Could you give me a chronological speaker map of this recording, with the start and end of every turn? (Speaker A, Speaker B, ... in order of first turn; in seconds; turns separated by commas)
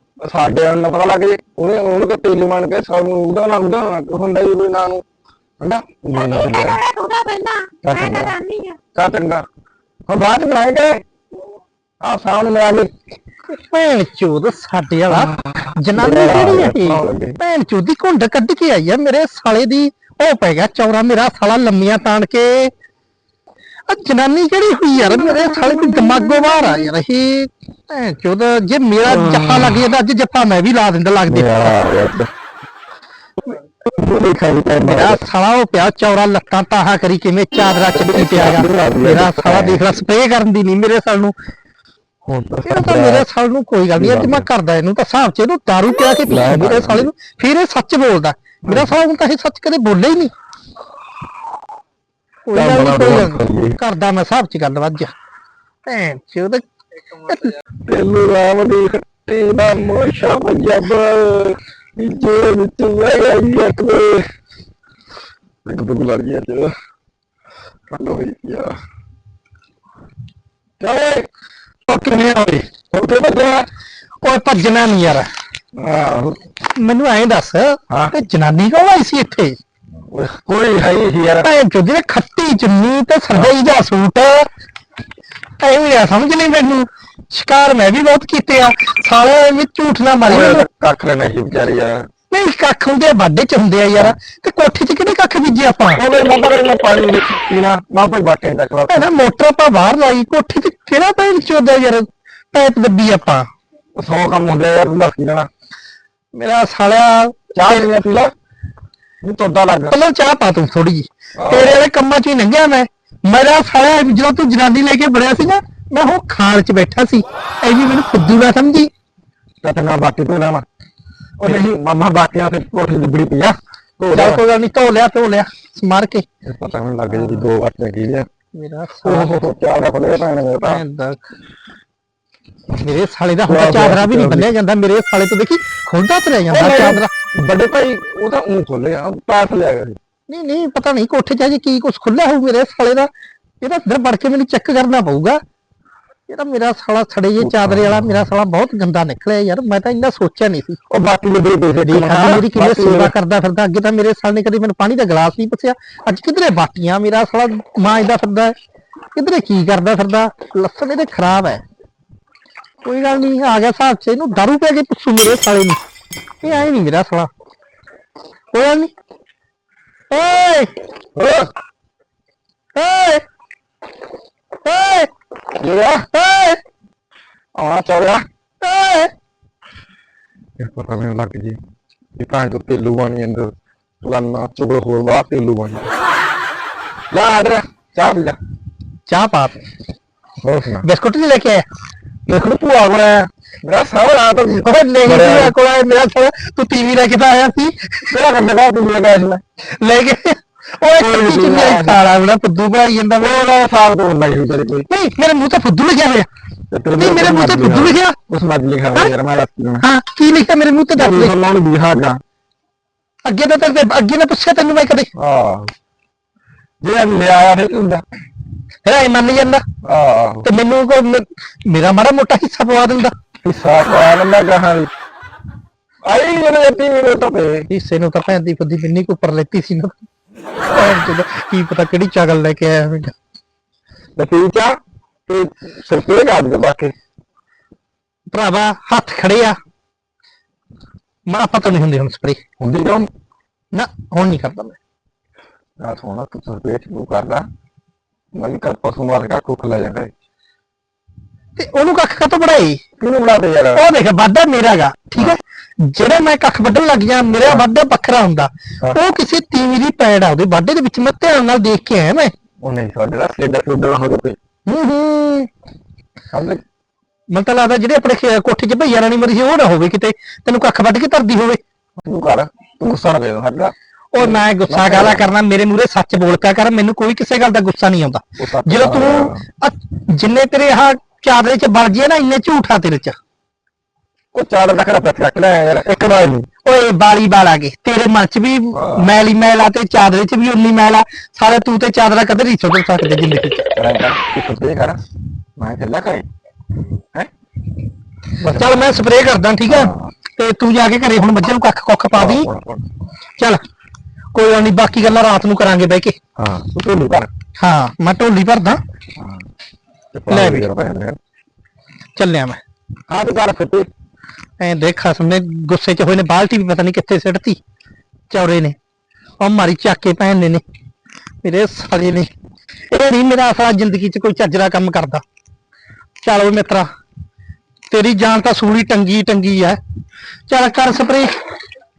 Speaker A: 0.2-5.0, Speaker A: 5.6-6.8, Speaker B: 6.1-8.8, Speaker A: 7.8-8.4, Speaker A: 8.9-9.4, Speaker A: 10.1-11.0, Speaker A: 12.0-12.9, Speaker C: 13.5-22.7, Speaker A: 15.1-17.4, Speaker C: 23.9-31.7, Speaker B: 25.0-26.9, Speaker A: 29.1-29.9, Speaker A: 31.3-32.3, Speaker A: 33.8-35.2, Speaker C: 34.8-41.3, Speaker A: 37.9-39.8, Speaker A: 42.2-43.3, Speaker C: 42.6-50.3, Speaker A: 44.0-44.5, Speaker A: 46.2-47.1, Speaker A: 48.6-48.9, Speaker C: 52.5-55.1, Speaker A: 52.5-53.8, Speaker C: 55.9-57.6, Speaker A: 57.9-64.3, Speaker A: 65.7-66.7, Speaker A: 67.9-68.8, Speaker A: 70.8-71.3, Speaker C: 71.9-72.7, Speaker A: 72.9-73.7, Speaker C: 74.2-75.3, Speaker A: 75.8-76.4, Speaker C: 76.8-79.6, Speaker A: 80.1-81.5, Speaker C: 81.4-84.5, Speaker C: 85.6-90.7, Speaker A: 90.2-92.1, Speaker C: 92.3-96.0, Speaker A: 95.9-99.1, Speaker C: 98.9-103.5, Speaker A: 104.0-105.5, Speaker C: 106.3-107.9, Speaker A: 107.5-108.3, Speaker A: 109.2-110.0, Speaker C: 109.9-118.9, Speaker A: 111.4-111.8, Speaker A: 119.6-120.7, Speaker A: 121.4-124.4, Speaker C: 124.1-126.2, Speaker A: 126.5-128.3, Speaker C: 127.2-127.4, Speaker C: 128.6-129.3, Speaker A: 129.0-130.8, Speaker C: 130.6-131.2, Speaker C: 132.8-137.1, Speaker A: 133.5-134.5, Speaker A: 136.5-140.0, Speaker C: 140.3-143.1, Speaker C: 143.6-145.4, Speaker C: 146.3-150.8, Speaker A: 147.4-148.3, Speaker A: 150.9-153.1, Speaker C: 151.8-158.5, Speaker C: 159.2-161.6, Speaker C: 162.8-165.8, Speaker C: 166.4-167.3, Speaker C: 168.5-168.9, Speaker C: 170.1-170.7, Speaker A: 171.2-171.5, Speaker C: 172.8-173.2, Speaker C: 174.7-175.1, Speaker A: 175.6-176.1, Speaker C: 176.1-176.6, Speaker A: 177.6-178.2, Speaker C: 178.6-179.1, Speaker A: 180.6-181.6, Speaker A: 182.2-183.5, Speaker A: 184.0-185.9, Speaker A: 187.1-188.4, Speaker C: 189.1-189.6, Speaker A: 190.4-190.9, Speaker C: 190.8-191.7, Speaker A: 192.3-195.5, Speaker C: 194.7-198.1, Speaker A: 198.1-199.4, Speaker C: 199.8-203.4, Speaker A: 200.9-202.0, Speaker A: 203.2-204.9, Speaker C: 204.9-206.3, Speaker A: 206.7-209.9, Speaker C: 207.0-208.2, Speaker C: 209.8-211.3, Speaker A: 210.9-212.2, Speaker C: 213.2-215.1, Speaker A: 215.2-215.7, Speaker A: 216.8-218.0, Speaker C: 218.8-219.7, Speaker A: 219.8-220.5, Speaker C: 220.4-223.1, Speaker A: 223.4-224.9, Speaker A: 226.1-227.7, Speaker C: 227.7-230.0, Speaker C: 230.7-233.1, Speaker A: 234.2-234.8, Speaker A: 235.3-236.9, Speaker C: 238.3-239.6, Speaker C: 241.3-242.4, Speaker A: 242.6-243.1, Speaker C: 243.7-244.8, Speaker A: 245.8-247.5, Speaker A: 248.3-250.1, Speaker C: 251.6-252.8, Speaker A: 253.0-253.8, Speaker C: 253.8-262.3, Speaker A: 262.6-264.4, Speaker C: 264.7-265.5, Speaker A: 266.3-266.6, Speaker C: 267.3-271.6, Speaker A: 272.0-275.3, Speaker C: 274.1-283.2, Speaker A: 278.4-279.4, Speaker A: 284.3-286.5, Speaker C: 286.6-293.7, Speaker A: 288.8-289.1, Speaker A: 293.8-295.0, Speaker A: 295.6-296.3, Speaker A: 298.4-298.8, Speaker C: 298.5-302.5, Speaker A: 299.7-300.1, Speaker A: 302.1-302.9, Speaker C: 304.3-306.2, Speaker A: 306.4-307.3, Speaker C: 307.6-308.8, Speaker A: 309.2-309.4, Speaker A: 310.1-311.2, Speaker C: 310.3-310.7, Speaker C: 312.2-312.6, Speaker A: 313.1-313.9, Speaker C: 314.6-317.6, Speaker C: 318.3-318.8, Speaker C: 319.4-320.6, Speaker C: 321.4-322.3, Speaker C: 322.9-325.2, Speaker C: 326.2-326.9, Speaker C: 327.9-329.8, Speaker C: 330.5-331.3